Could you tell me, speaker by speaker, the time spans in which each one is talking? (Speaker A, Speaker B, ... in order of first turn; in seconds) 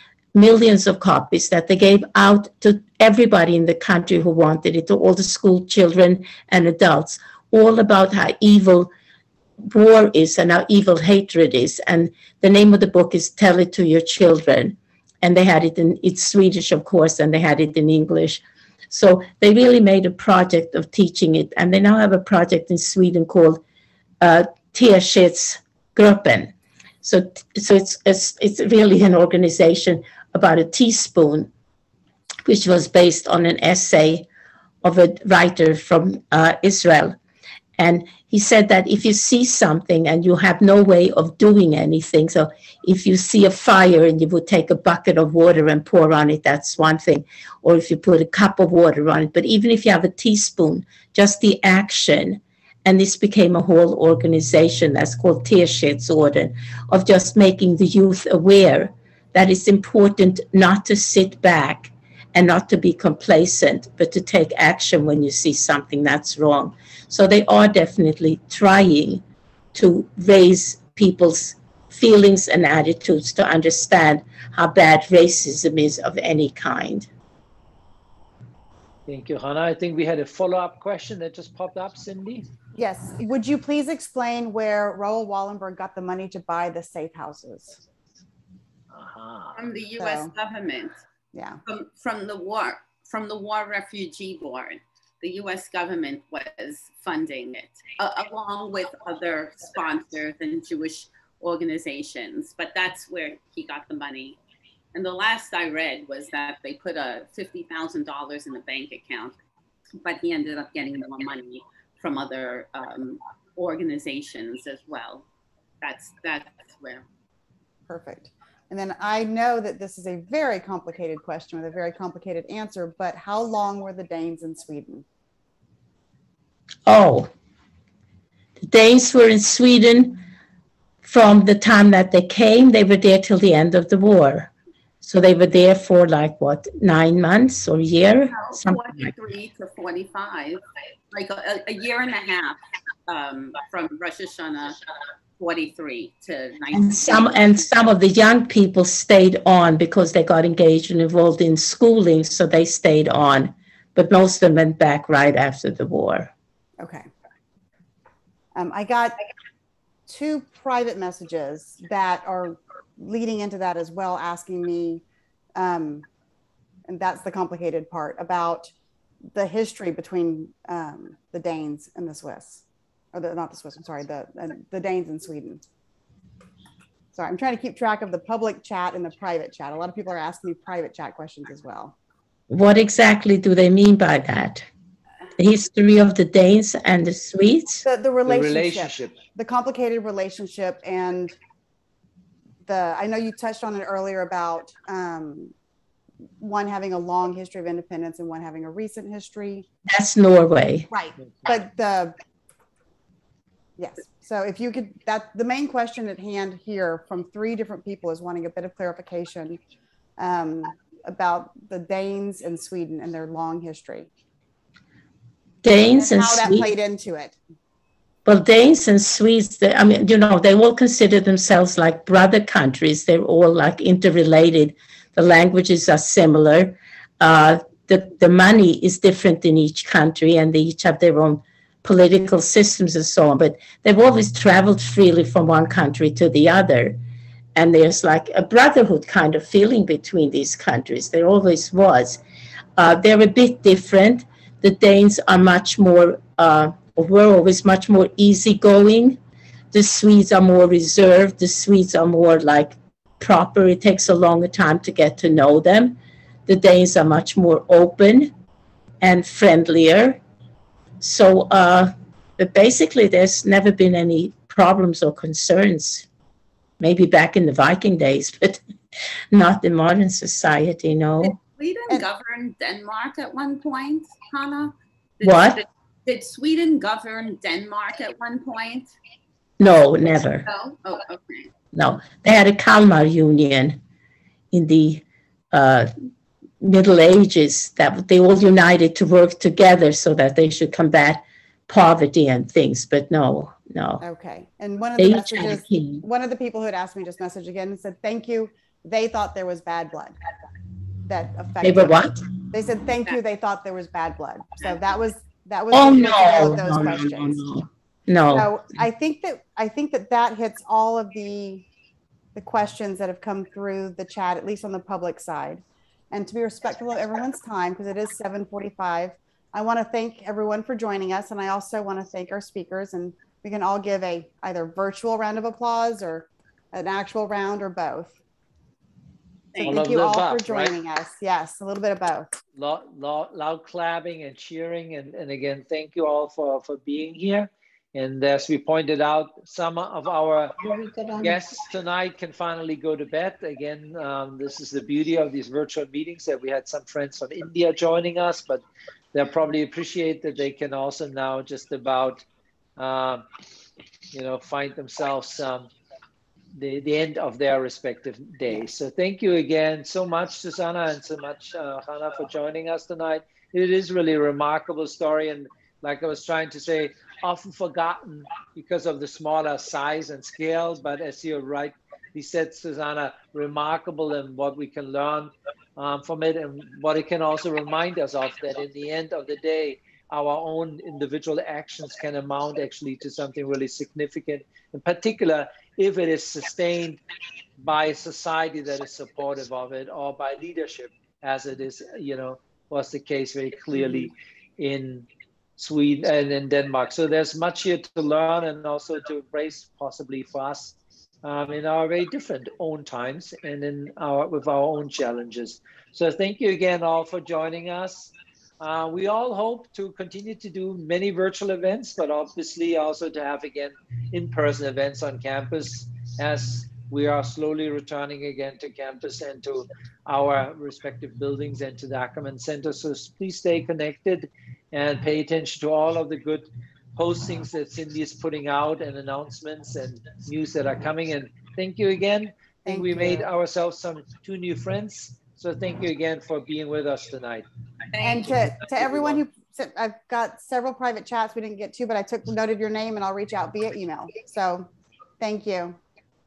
Speaker A: 0.3-8.9, 9.7-23.6, 24.2-26.5, 27.0-31.5, 32.5-34.3, 34.8-37.1, 37.8-69.2, 69.7-77.1, 126.9-127.3, 128.6-130.2, 131.0-134.5, 135.0-139.1, 146.7-156.3, 182.5-184.7, 185.4-187.8, 199.9-200.9, 215.6-216.7, 218.3-237.0, 237.6-242.2, 242.8-249.2, 249.7-258.3, 259.0-260.2, 261.0-266.1, 266.8-268.6, 269.3-271.4, 275.2-275.6, 279.6-280.5, 281.7-283.8, 284.5-285.9, 286.6-294.0, 295.0-296.1, 301.6-302.2, 305.7-308.5, 340.7-341.2
Speaker B: 79.1-82.5, 88.9-89.7, 188.3-189.2, 329.6-330.8, 332.6-340.6, 341.2-352.2, 352.8-353.3, 354.1-355.7, 356.5-387.0, 387.6-437.5, 438.7-439.2
Speaker C: 82.8-87.8, 90.0-90.3, 91.3-91.6, 117.9-125.1, 156.8-157.1, 158.6-159.2, 160.1-165.0, 165.6-166.1, 166.9-168.7, 169.3-175.6, 177.2-181.9, 187.8-191.4, 192.7-195.5, 196.4-199.7, 200.9-202.2, 203.8-209.6, 210.2-214.1, 215.9-217.4, 294.0-300.2, 301.1-307.4, 308.3-311.7, 312.4-328.1, 329.6-332.3, 432.7-433.3, 438.0-444.7, 445.2-445.8
Speaker D: 89.6-91.0, 91.7-104.4, 104.9-109.3, 110.0-115.3, 115.8-117.0, 138.3-140.6, 141.1-144.8, 145.4-147.5, 271.2-278.9, 280.5-281.5, 329.5-330.0, 437.9-438.3